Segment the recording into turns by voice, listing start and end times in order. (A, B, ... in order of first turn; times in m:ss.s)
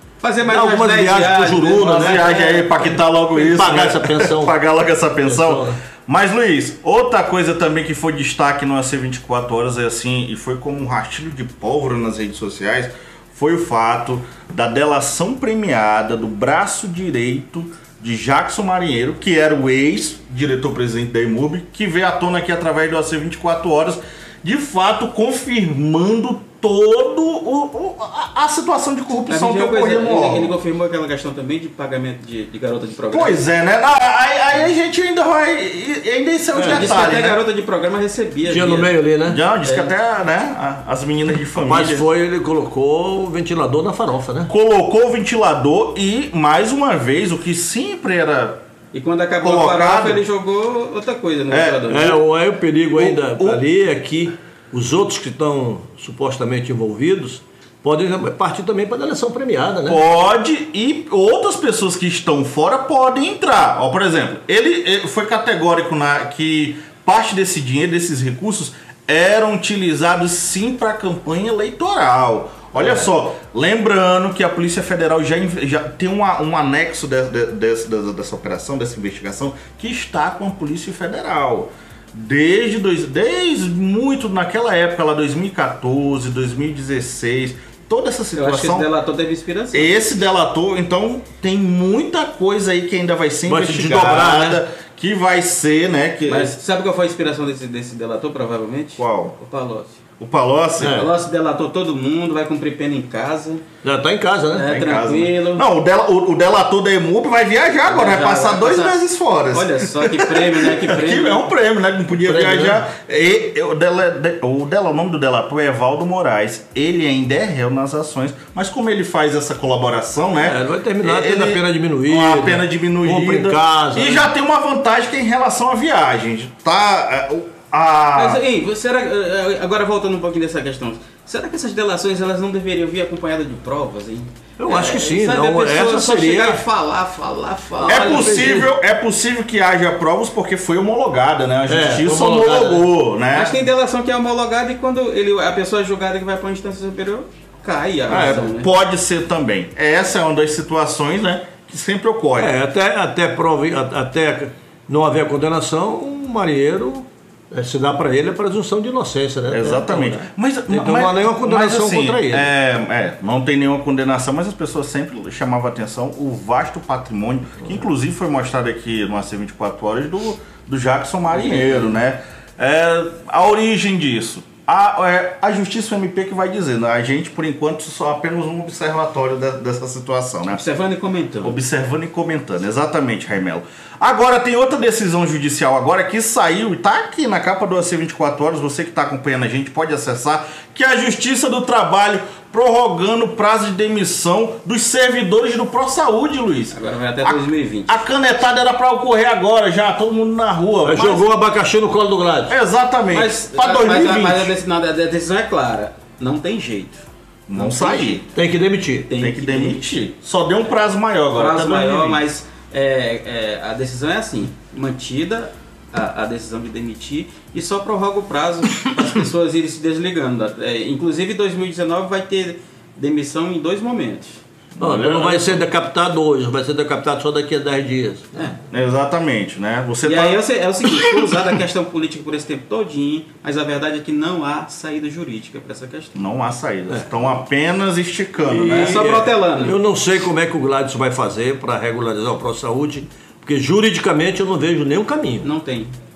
0:00.2-0:02.8 A
0:00.4-0:02.4 B
0:01.9-0:30.5 C
0:03.3-0:04.6 B
0:05.2-0:05.8 B
0:29.3-0:33.4 A
0:33.1-0:37.4 C
0:36.5-0:37.0 B
0:36.6-0:38.9 A
0:38.4-0:39.4 B
0:39.2-0:42.0 C
0:39.6-0:39.9 A
0:41.5-0:44.5 B
0:44.5-0:48.6 C
0:48.9-0:52.2 A
0:49.4-0:50.2 C
0:51.5-0:51.8 C
0:51.9-1:00.0 B
0:53.0-0:53.6 C
0:59.8-1:28.9 C
1:28.3-1:29.9 A
1:29.7-1:36.5 C
1:33.4-1:34.6 B
1:36.2-1:40.0 A
1:39.0-1:39.3 C
1:40.2-1:41.0 C
1:40.8-1:41.1 B
1:40.9-1:43.6 A
1:43.8-1:44.7 B
1:44.5-1:45.6 A
1:44.7-2:08.4 C
1:47.8-1:51.5 A
1:52.2-1:52.8 B
2:00.4-2:04.3 B
2:08.1-2:18.6 A
2:14.6-2:16.6 B
2:17.9-2:23.6 C
2:17.9-2:18.7 B
2:21.7-2:22.9 B
2:23.3-2:28.7 A
2:28.1-2:32.5 C
2:28.1-2:28.5 B
2:32.4-2:42.5 B
2:39.5-3:00.6 C
2:51.3-2:52.0 A
3:00.5-3:01.6 A
3:01.4-3:21.2 C
3:16.7-3:18.1 A
3:20.8-3:22.6 B
3:22.5-3:24.5 C
3:23.1-3:28.2 A
3:27.5-3:28.2 C
3:28.3-3:29.1 B
3:29.1-3:30.0 A
3:29.2-3:32.2 C
3:31.3-3:44.4 A
3:44.8-3:45.6 C
3:44.8-3:48.5 B
3:48.7-3:50.4 C
3:50.0-3:56.2 A
3:56.2-3:59.2 C
3:58.4-3:59.8 A
3:58.6-4:05.5 B
4:05.4-4:05.9 A